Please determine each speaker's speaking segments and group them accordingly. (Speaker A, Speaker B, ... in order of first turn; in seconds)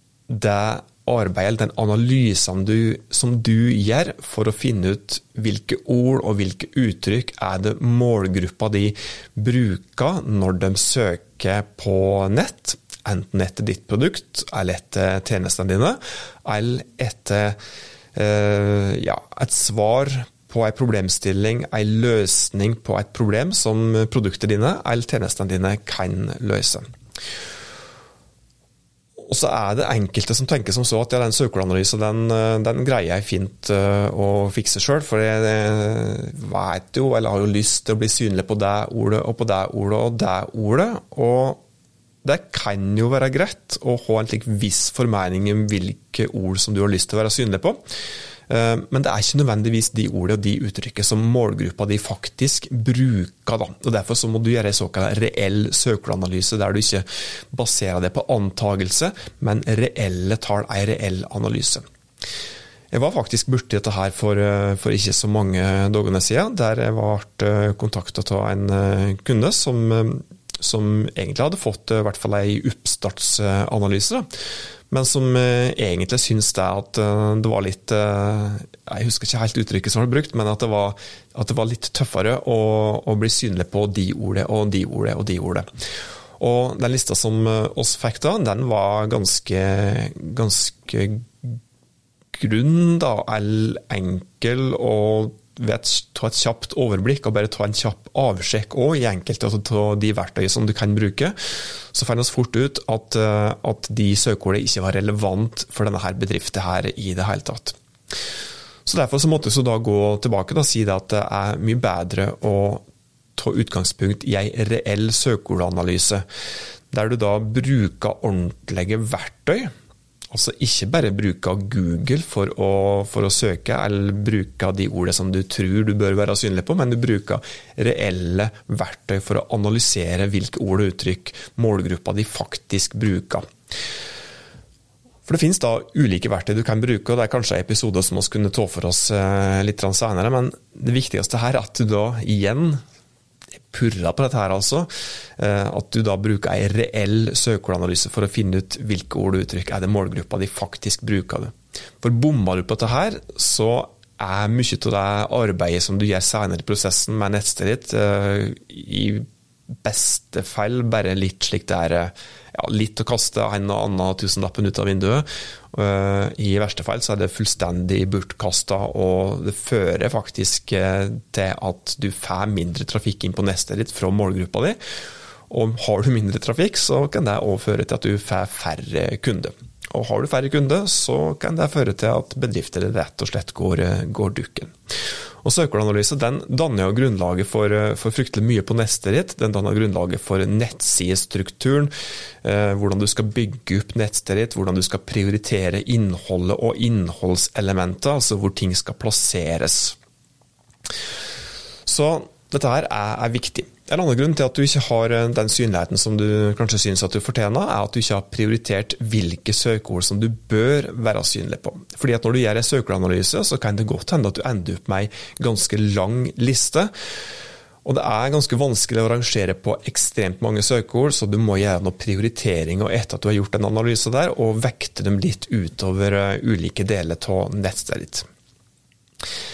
Speaker A: 0.3-17.6, 18.1-26.8, 29.2-41.6, 42.2-47.8, 48.5-61.8, 62.9-74.3, 74.9-85.7, 86.4-91.6, 92.3-107.8, 108.8-112.8, 113.4-116.2, 116.9-119.7, 120.3-133.4, 135.2-142.8, 143.7-159.2, 159.8-174.8, 175.5-184.7, 185.4-191.9, 192.4-199.9, 201.8-216.9, 217.8-228.2